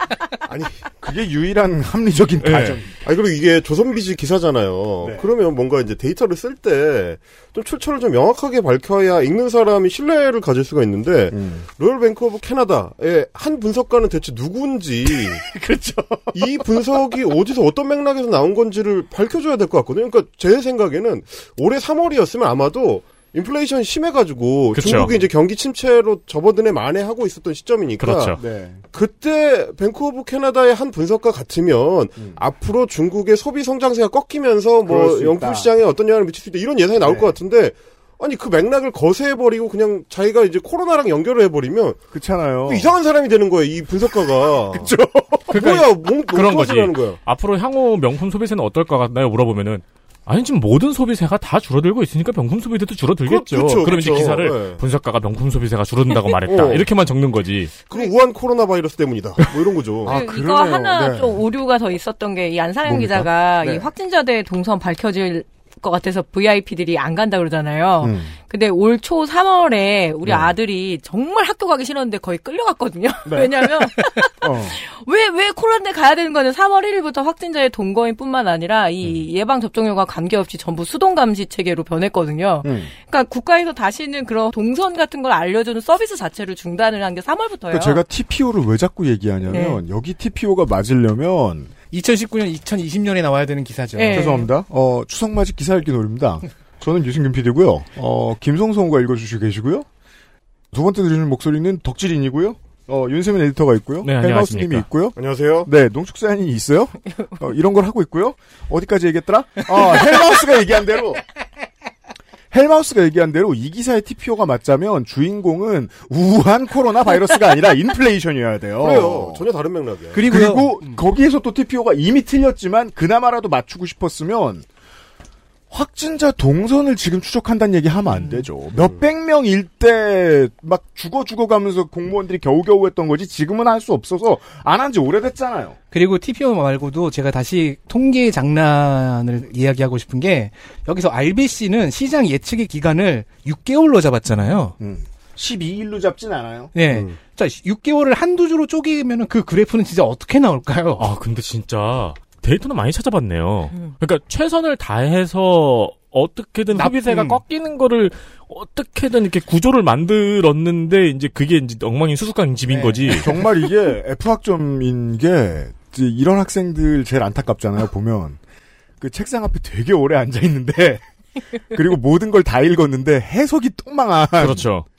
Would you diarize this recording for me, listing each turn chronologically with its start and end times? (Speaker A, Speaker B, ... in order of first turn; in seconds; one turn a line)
Speaker A: 0.5-0.7
Speaker B: 1.0-2.9
Speaker C: 2.4-2.8
Speaker A: 3.0-15.4
Speaker B: 11.3-11.7
Speaker B: 15.3-16.4
Speaker A: 16.3-28.4
Speaker C: 24.7-25.1
Speaker C: 28.0-28.4
Speaker B: 28.4-28.8
Speaker A: 28.9-42.0
Speaker B: 34.9-35.7
Speaker B: 37.0-37.3
Speaker B: 42.1-42.9
Speaker A: 42.7-44.9
Speaker B: 44.7-45.5
Speaker A: 45.5-47.2
Speaker C: 45.5-57.7
Speaker A: 53.2-54.8
Speaker A: 56.5-56.9
Speaker A: 57.9-60.1
Speaker D: 60.0-88.0
Speaker B: 60.1-61.4
Speaker B: 62.9-63.9
Speaker B: 68.0-68.3
Speaker B: 70.3-70.5
Speaker B: 73.3-73.7
Speaker B: 74.4-74.8
Speaker B: 82.6-82.9
Speaker B: 87.7-91.7
Speaker D: 89.5-89.8
Speaker E: 91.9-94.4
Speaker D: 93.9-94.5
Speaker B: 94.1-99.9
Speaker B: 100.7-111.2
Speaker C: 104.0-104.9
Speaker A: 105.2-105.7
Speaker B: 112.5-119.4
Speaker A: 118.8-120.3
Speaker E: 120.1-121.0
Speaker B: 120.3-124.7
Speaker B: 125.7-135.8
Speaker E: 135.9-144.8
Speaker B: 144.8-146.7
Speaker E: 146.7-151.1
Speaker A: 146.9-147.2
Speaker C: 151.0-163.3
Speaker E: 156.7-157.4
Speaker B: 162.7-168.4
Speaker B: 169.0-171.0
Speaker B: 171.7-174.7
Speaker C: 174.4-174.9